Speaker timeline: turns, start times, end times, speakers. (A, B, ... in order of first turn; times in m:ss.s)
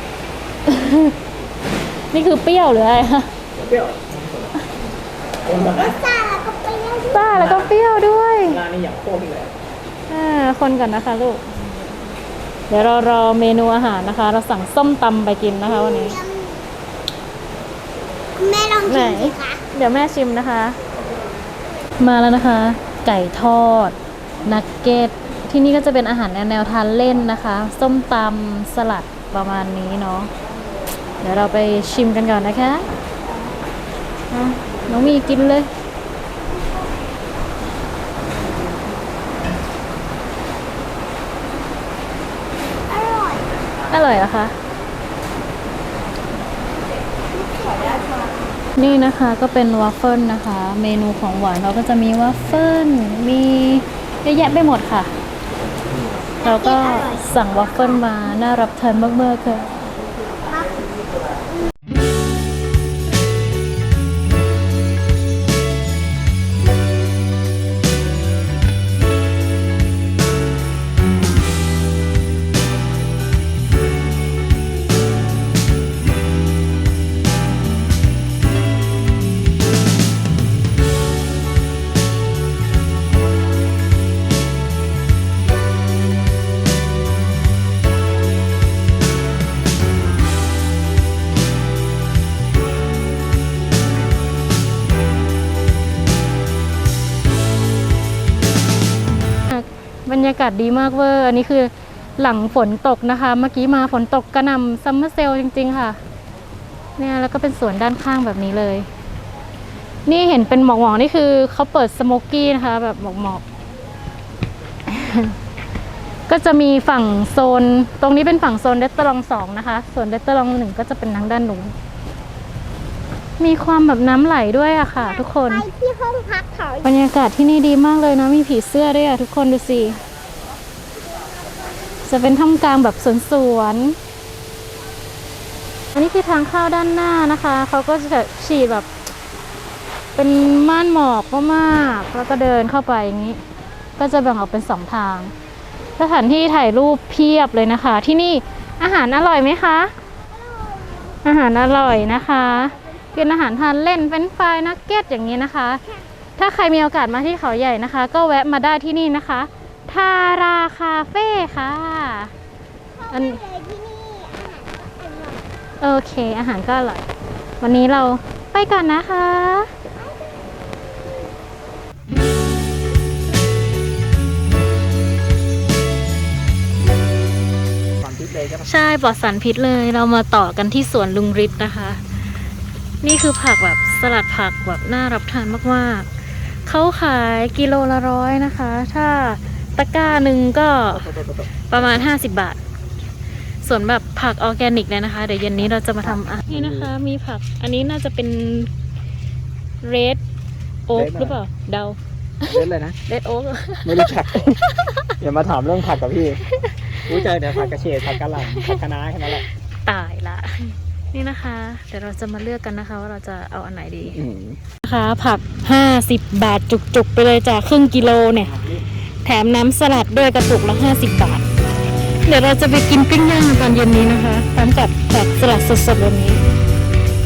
0:00.6-0:01.2 A
0:02.0-0:03.3 A
0:03.6-0:04.3 B
0:05.5-0:05.9 B
0:05.6-0:07.4 C
0:07.1-0:08.6 A
0:07.4-0:07.7 B
0:08.4-0:09.6 B
0:10.1-0:11.7 A
0:12.7-0:16.2 A
0:15.5-0:16.6 C
0:18.4-0:19.6 C
0:18.9-0:20.8 A
0:22.0-0:30.3 A
0:31.2-0:32.9 A
0:34.3-0:35.7 A
0:42.9-0:43.5 C
0:43.9-0:44.6 A
0:48.8-0:55.1 A
0:56.4-0:57.3 C
0:56.4-0:59.7 A
1:39.5-1:46.0 A
1:47.0-1:48.9 A
1:50.1-1:53.4 A
1:54.9-1:55.4 A
1:56.3-2:01.8 A
2:03.4-2:05.7 A
2:05.0-2:06.9 C
2:06.8-2:10.0 A
2:12.0-2:14.0 A
2:15.9-2:18.9 A
2:20.2-2:23.4 A
2:24.0-2:25.3 A
2:26.0-2:29.9 A
2:30.6-2:31.0 C
2:31.2-2:35.8 A
2:36.4-2:42.3 A
2:43.0-2:45.4 C
2:43.1-2:43.4 A
2:45.8-2:47.1 A
2:47.6-2:49.7 A
2:58.0-2:58.7 B
2:58.6-3:02.0 A
3:03.0-3:11.1 A
3:10.9-3:11.8 B
3:11.7-3:12.6 A
3:13.6-3:18.7 A
3:16.3-3:16.9 B
3:19.8-3:20.2 A
3:20.9-3:25.1 A
3:20.9-3:21.4 B
3:22.5-3:23.0 B
3:23.8-3:24.6 B
3:25.2-3:26.4 B
3:26.5-3:28.8 A
3:27.1-3:29.4 B
3:29.4-3:34.2 A
3:34.2-3:34.6 B
3:34.8-3:41.4 A
3:42.2-3:46.4 A